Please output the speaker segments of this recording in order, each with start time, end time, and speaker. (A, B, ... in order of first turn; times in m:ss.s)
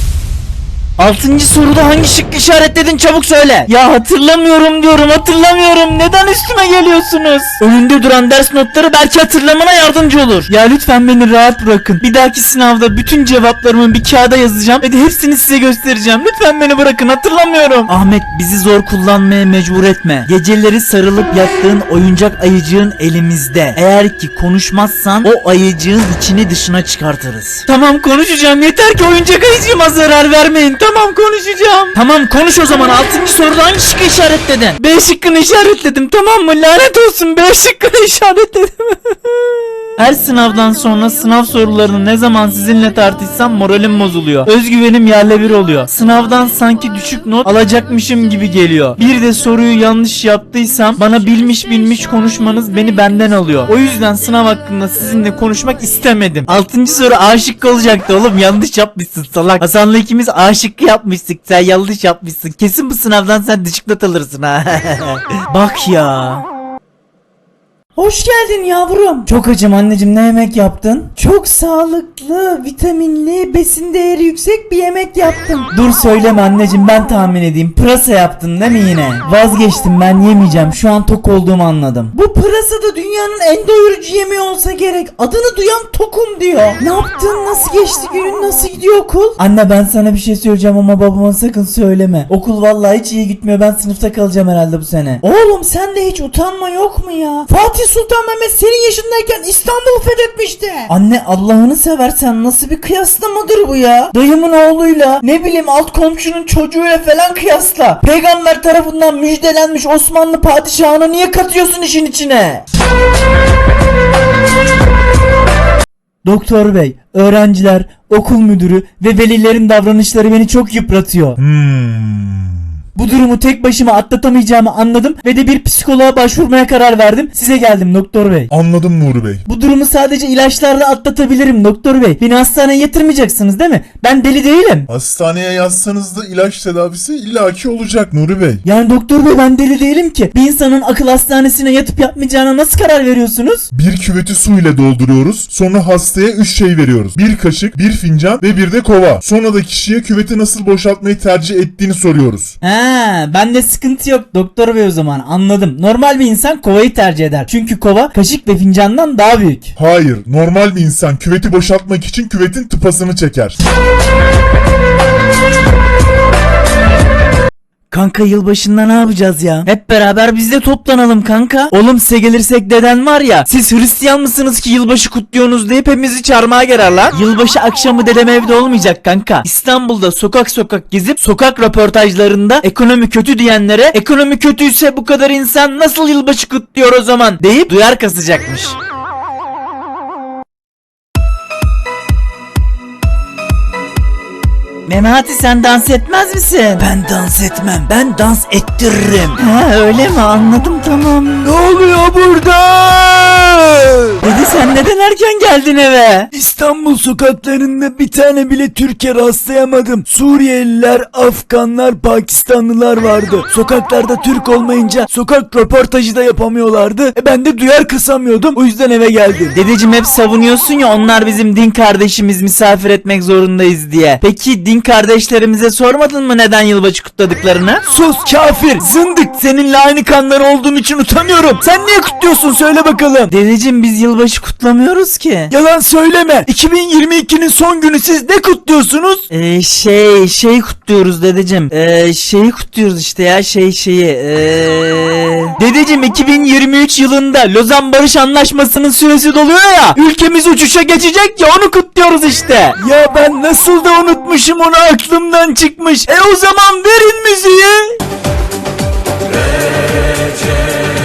0:01.0-0:38.9 A
0:40.0-1:06.4 A
1:08.0-1:37.7 A
1:37.6-1:40.8 B
1:40.8-1:52.6 A
1:56.2-2:01.4 A
2:01.4-2:02.7 C
2:02.9-2:08.5 A
2:08.5-2:09.4 C
2:09.4-2:14.9 A
2:14.9-2:18.6 C
2:18.6-2:23.7 A
2:23.7-2:32.6 C
2:32.6-2:39.7 A
2:39.8-2:43.6 C
2:47.9-3:08.7 A
3:14.8-3:17.0 A
3:16.9-3:19.3 B
3:19.3-3:21.5 A
3:21.4-3:24.3 B
3:24.2-3:26.3 A
3:26.3-3:39.6 B
3:39.5-3:47.8 A
3:47.8-3:53.3 B
3:53.3-3:55.5 A
3:55.5-3:59.2 B
3:59.3-4:12.8 A
4:12.8-4:14.5 B
4:14.5-4:18.0 A